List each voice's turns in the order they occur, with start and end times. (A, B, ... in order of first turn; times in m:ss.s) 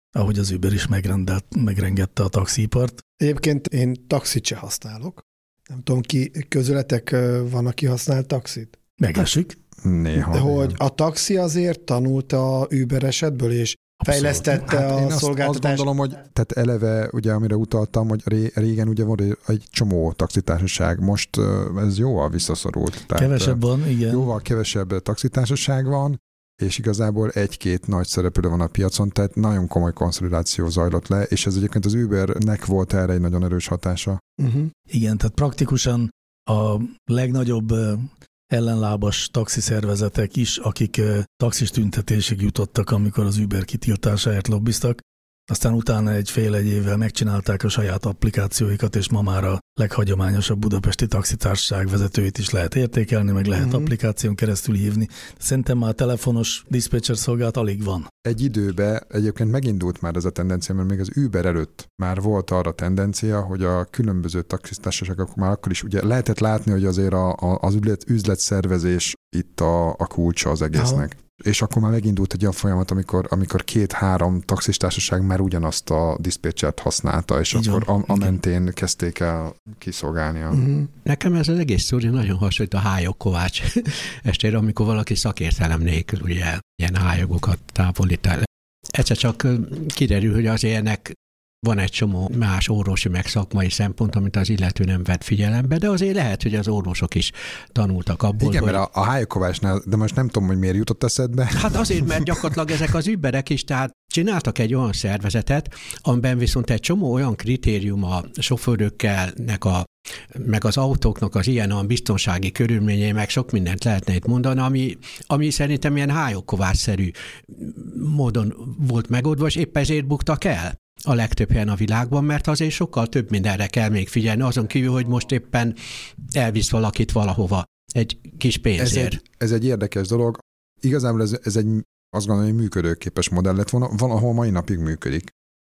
0:00.1-0:03.0 A
0:03.2-0:08.8 B
0:09.0-0:09.6 A
0:09.8-0:10.8 C
0:10.2-0:15.9 B
0:14.0-0:14.6 A
0:14.5-0:34.2 C
0:23.1-0:24.2 A
0:34.4-0:34.7 B
0:34.9-0:58.1 A
0:53.6-0:53.9 B
0:58.2-1:20.6 C
1:10.7-1:11.0 B
1:17.5-1:18.3 A
1:20.5-1:20.9 B
1:21.0-1:38.8 D
1:38.4-1:42.7 C
1:41.5-2:09.2 D
2:08.8-2:15.3 C